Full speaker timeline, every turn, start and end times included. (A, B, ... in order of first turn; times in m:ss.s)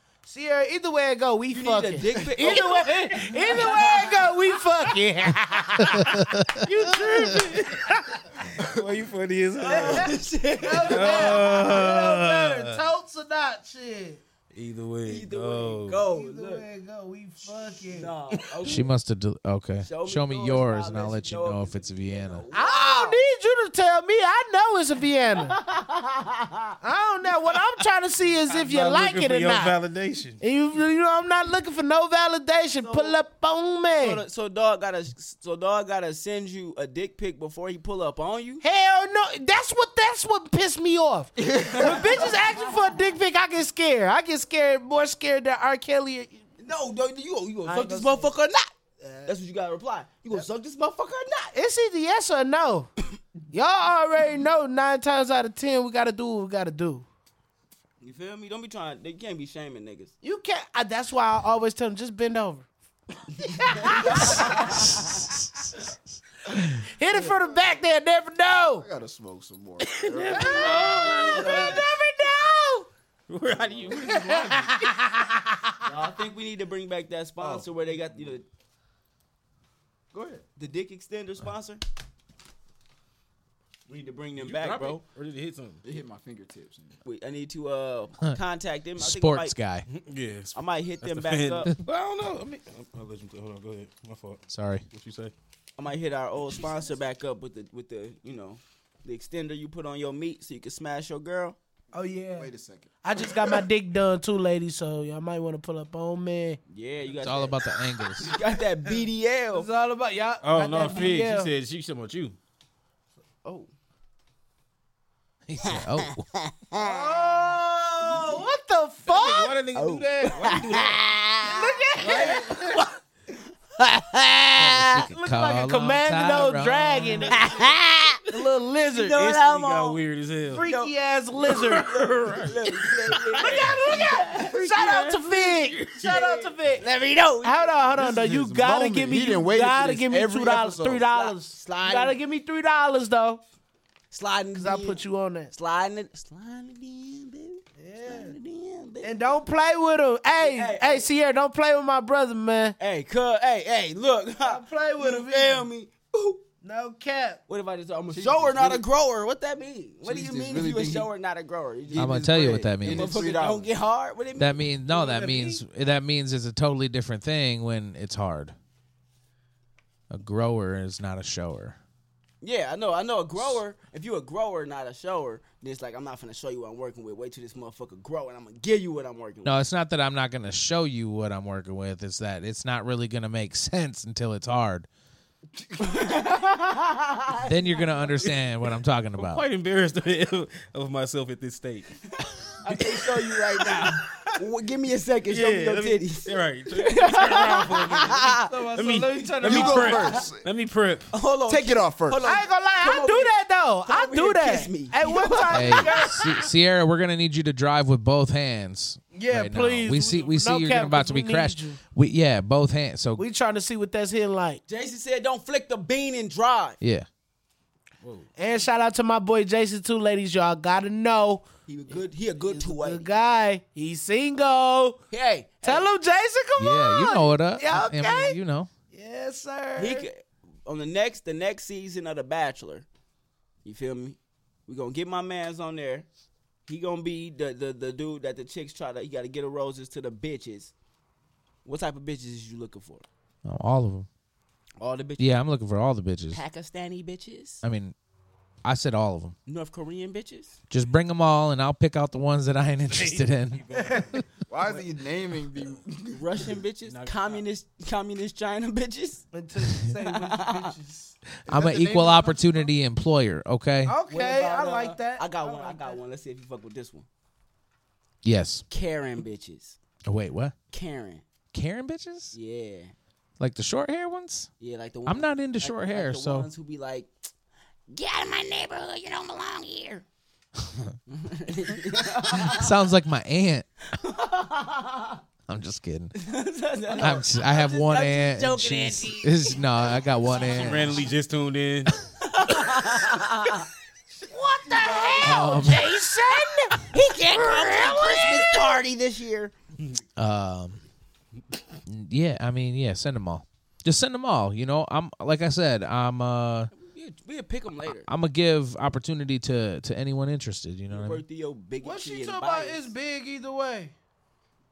0:00.2-0:08.3 A
0:01.5-0:04.4 B
0:02.2-0:02.4 C
0:06.0-0:06.4 D
0:06.7-0:08.0 E
0:08.6-0:10.2 E
0:09.6-0:11.6 B
0:09.7-0:14.2 A
0:10.8-0:12.8 E
0:14.5-0:16.0 E
0:15.0-0:16.6 B
0:16.1-0:18.1 A
0:17.9-0:18.9 B
0:18.7-0:22.4 D
0:19.8-0:23.2 B
0:22.5-0:25.6 A
0:25.4-0:26.8 B
0:26.8-0:29.8 A
0:28.5-0:30.4 E
0:30.4-0:34.2 A
0:32.8-0:33.2 B
0:34.0-0:38.6 B
0:38.6-0:46.4 A
0:41.4-0:42.3 C
0:41.7-0:43.0 B
0:46.6-0:48.7 B
0:47.6-0:48.3 A
0:49.0-0:49.3 A
0:49.3-0:51.5 B
0:51.5-0:52.9 A
0:53.5-0:57.1 A
0:58.0-1:00.1 B
1:00.2-1:02.7 A
1:03.4-1:04.9 A
1:03.6-1:05.3 B
1:05.0-1:05.8 D
1:06.8-1:08.9 A
1:08.8-1:10.7 C
1:09.8-1:11.8 E
1:10.3-1:12.9 A
1:10.4-1:11.9 B
1:13.3-1:14.8 E
1:14.0-1:15.7 A
1:15.8-1:18.4 B
1:17.4-1:17.7 C
1:20.1-1:20.4 C
1:20.6-1:21.8 B
1:23.9-1:25.0 B
1:24.4-1:25.8 E
1:25.8-1:27.0 C
1:27.0-1:29.6 B
1:29.0-1:29.9 D
1:29.9-1:35.3 E
1:30.5-1:31.7 B
1:34.5-1:34.8 D
1:35.8-1:41.6 B
1:41.9-1:42.5 A
1:42.4-1:42.9 C
1:43.0-1:46.6 A
1:46.7-1:49.7 B
1:47.2-1:48.3 D
1:49.5-1:51.5 A
1:50.4-1:52.4 E
1:53.4-1:53.7 B
1:55.5-1:56.2 D
1:55.6-1:57.2 B
1:56.8-1:59.6 A
1:59.0-2:01.0 E
1:59.7-2:03.0 B
2:01.4-2:02.7 A
2:02.0-2:02.8 E
2:03.8-2:05.0 B
2:04.6-2:07.3 D
2:05.1-2:07.4 A
2:07.3-2:08.2 B
2:07.4-2:07.7 E
2:08.3-2:09.2 A
2:08.9-2:10.0 B
2:09.1-2:10.7 E
2:10.5-2:11.9 A
2:10.5-2:11.0 B
2:11.5-2:16.1 E
2:11.6-2:14.8 B
2:13.4-2:16.9 A
2:15.9-2:17.8 B
2:17.4-2:23.4 A
2:18.0-2:21.0 C
2:21.1-2:22.2 B
2:24.1-2:29.4 B
2:24.6-2:25.5 A
2:27.8-2:28.4 A
2:29.0-2:32.8 A
2:30.4-2:31.1 B
2:32.8-2:36.4 B
2:34.4-2:35.7 A
2:36.6-2:37.4 A
2:37.5-2:44.7 B
2:38.1-2:38.8 C
2:40.0-2:41.1 C
2:41.9-2:43.7 C
2:42.0-2:43.2 D
2:44.4-2:48.6 D
2:44.9-2:45.6 A
2:50.1-2:51.8 D
2:52.4-2:59.6 B
2:59.4-3:04.9 D
3:05.5-3:05.9 C
3:05.8-3:07.8 B
3:07.5-3:09.4 D
3:09.2-3:12.0 E
3:12.6-3:18.6 B
3:12.7-3:14.3 E
3:15.3-3:21.1 E
3:18.4-3:20.2 A
3:19.4-3:20.5 C
3:19.9-3:20.2 B
3:21.1-3:26.1 B
3:21.5-3:22.2 C
3:22.2-3:26.5 A
3:25.5-3:33.2 D
3:29.1-3:31.8 A
3:33.2-3:34.6 A
3:34.7-3:36.8 B
3:36.8-3:37.1 D
3:38.0-3:38.3 E
3:38.4-3:41.4 A
3:41.7-3:43.1 B
3:42.4-3:45.0 A
3:45.1-3:45.9 B
3:45.6-3:48.4 A
3:46.6-3:48.7 D
3:48.9-3:50.1 A
3:49.8-3:52.9 B
3:53.6-3:56.1 B
3:56.7-4:00.7 B
4:01.6-4:03.1 B
4:03.4-4:04.1 D
4:04.8-4:05.4 B
4:05.2-4:06.4 D
4:06.3-4:07.6 B
4:07.6-4:07.9 D
4:08.6-4:09.4 D
4:09.5-4:10.6 B
4:10.7-4:14.2 D
4:12.8-4:14.2 E
4:14.5-4:16.5 C
4:16.1-4:19.3 B
4:16.8-4:17.4 E
4:19.3-4:21.2 A
4:20.0-4:20.8 B
4:21.4-4:24.0 D
4:21.5-4:22.7 C
4:23.8-4:26.0 A
4:24.1-4:27.1 B
4:28.2-4:28.6 D
4:28.7-4:29.8 B
4:30.1-4:30.5 D
4:30.7-4:31.2 B
4:31.5-4:32.4 D
4:32.3-4:32.9 B
4:33.4-4:34.5 D
4:34.6-4:37.1 B
4:35.1-4:36.5 D
4:37.9-4:40.0 B
4:41.1-4:42.8 B
4:42.4-4:43.7 D
4:43.9-4:45.2 B
4:45.5-4:46.1 D
4:46.2-4:50.6 B
4:47.0-4:51.0 D
4:50.4-4:52.0 E
4:52.1-4:53.7 B
4:54.3-4:55.8 B
4:54.8-4:56.9 A
4:55.2-4:56.0 D
4:56.9-4:59.5 B
5:00.2-5:00.8 D
5:01.9-5:06.7 D
5:06.7-5:08.1 B
5:08.0-5:11.2 D
5:10.9-5:12.9 B
5:11.8-5:13.9 A